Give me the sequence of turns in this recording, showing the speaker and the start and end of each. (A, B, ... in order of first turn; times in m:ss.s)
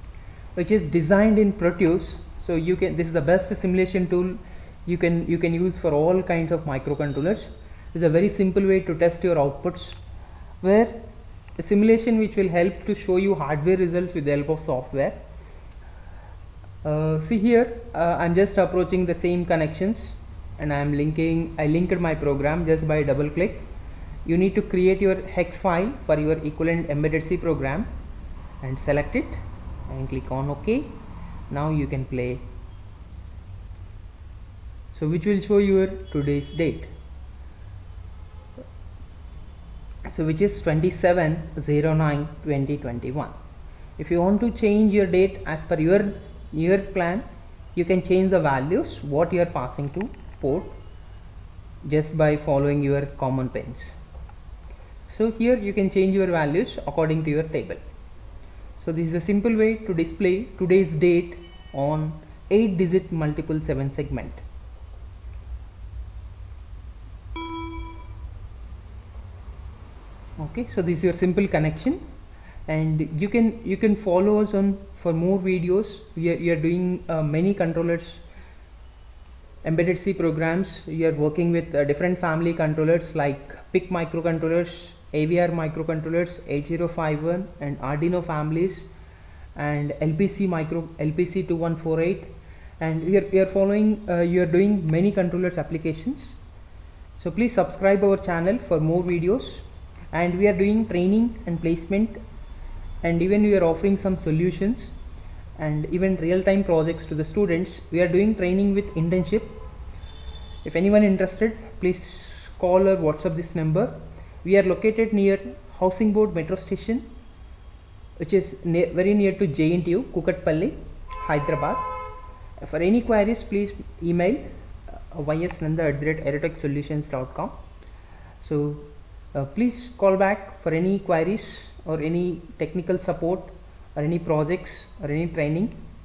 0:00.5-0:10.0 A
0:10.6-0:11.0 A
0:11.6-0:15.2 A
0:16.8-0:23.7 A
0:24.2-0:27.9 A
0:28.6-0:31.0 A
0:31.5-0:32.4 A
0:34.9-0:36.9 A
0:40.1-0:43.3 A
0:44.0-0:50.7 A
0:51.8-0:53.9 A
0:55.1-0:57.8 A
0:58.8-1:04.4 A
1:10.4-1:12.0 A
1:12.7-1:18.2 A
1:19.6-1:28.9 A
1:29.6-1:36.4 A
1:37.2-1:42.2 A
1:43.0-1:44.9 A
1:45.6-1:49.6 A
1:50.6-1:57.0 A
1:58.2-2:01.9 A
2:02.6-2:07.6 A
2:08.4-2:15.7 A